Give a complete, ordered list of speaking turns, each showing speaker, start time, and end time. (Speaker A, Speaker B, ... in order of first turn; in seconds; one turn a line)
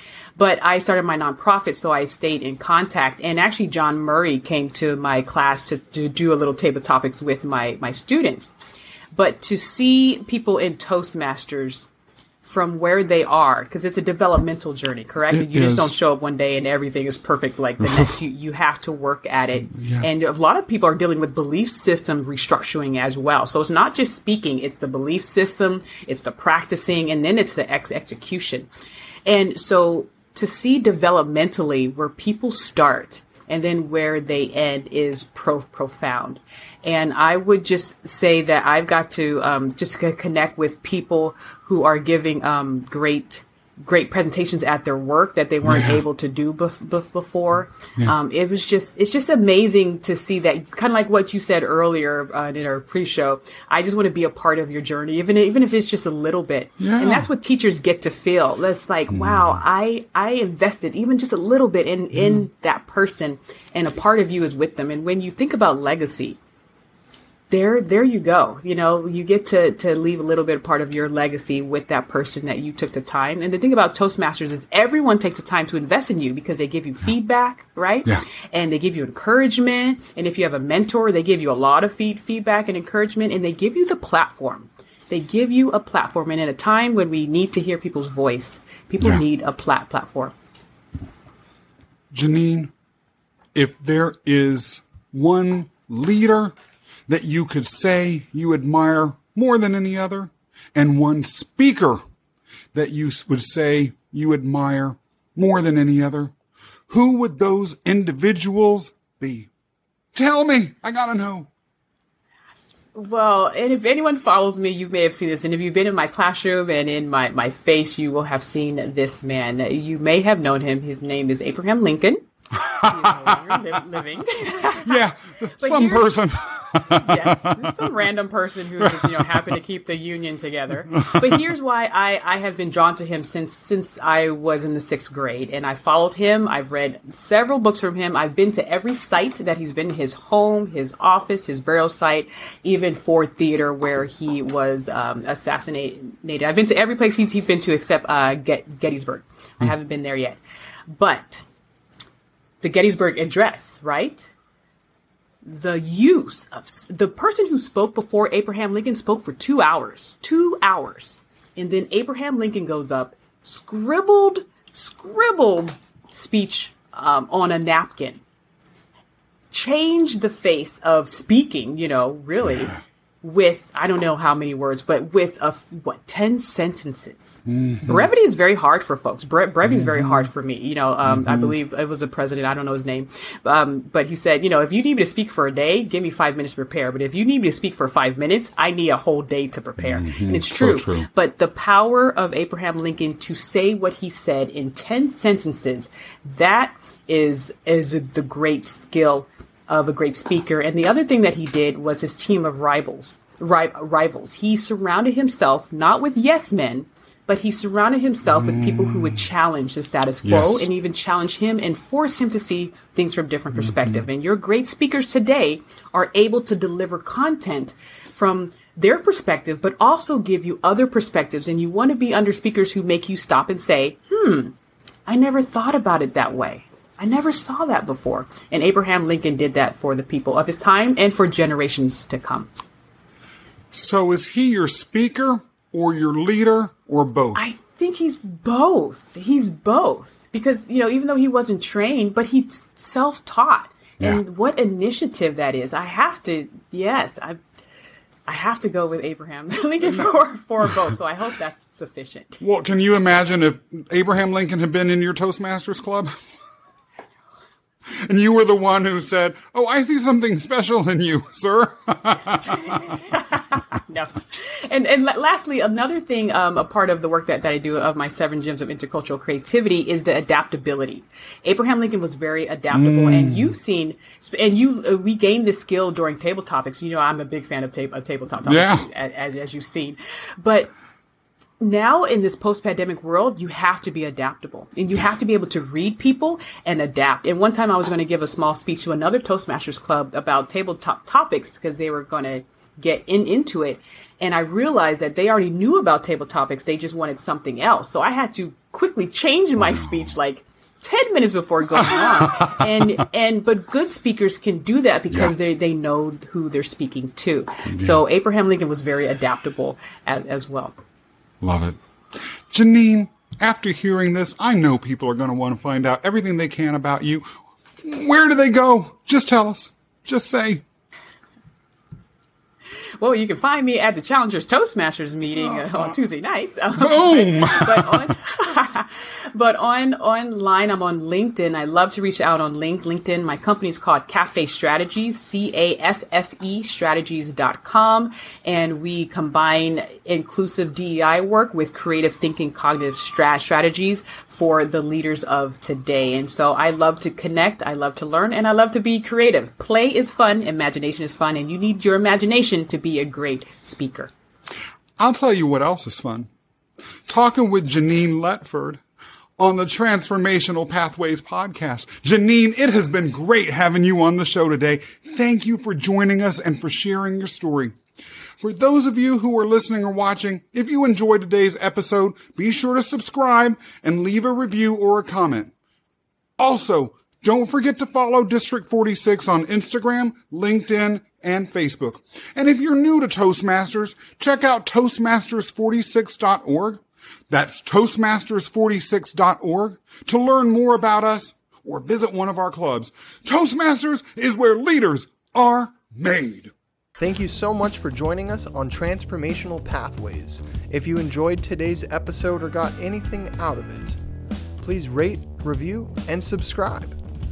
Speaker A: 0.4-8.5
Speaker A: 9.2-11.9
Speaker A: 12.4-28.7
Speaker B: 15.3-15.9
Speaker B: 17.8-18.1
Speaker B: 19.7-20.1
Speaker A: 29.2-66.4
Speaker B: 45.6-46.0
Speaker B: 56.8-57.2
Speaker B: 59.1-59.6
Speaker A: 67.5-90.3
Speaker B: 92.1-92.7
Speaker B: 93.5-96.5
Speaker B: 97.1-102.0
Speaker B: 102.7-106.3
Speaker B: 106.9-109.5
Speaker B: 110.1-111.5
Speaker A: 112.9-125.0
Speaker B: 124.8-127.8
Speaker A: 125.6-126.2
Speaker A: 126.7-150.4
Speaker B: 128.8-129.5
Speaker A: 150.9-151.4
Speaker A: 152.6-154.3
Speaker A: 155.4-168.2
Speaker A: 169.5-224.5
Speaker B: 177.5-178.1
Speaker B: 179.7-180.3
Speaker B: 181.1-181.5
Speaker B: 189.8-191.1
Speaker B: 208.3-209.2
Speaker B: 210.2-210.7
Speaker B: 213.6-214.0
Speaker A: 225.1-232.5
Speaker B: 233.7-237.5
Speaker A: 237.3-247.4
Speaker A: 248.3-252.4
Speaker B: 252.4-256.1
Speaker B: 257.9-262.8
Speaker A: 262.4-280.7
Speaker B: 272.7-273.5
Speaker B: 278.5-278.9
Speaker A: 281.6-310.7
Speaker B: 299.6-300.1
Speaker B: 301.8-302.6
Speaker B: 307.7-308.0
Speaker B: 311.4-317.2
Speaker B: 317.8-320.6
Speaker A: 323.0-354.1
Speaker B: 325.5-325.8
Speaker B: 326.8-328.1
Speaker B: 355.0-356.3
Speaker B: 357.1-358.8
Speaker B: 359.4-367.7
Speaker B: 368.4-375.5
Speaker B: 376.4-396.5
Speaker C: 397.0-404.0
Speaker C: 404.6-407.0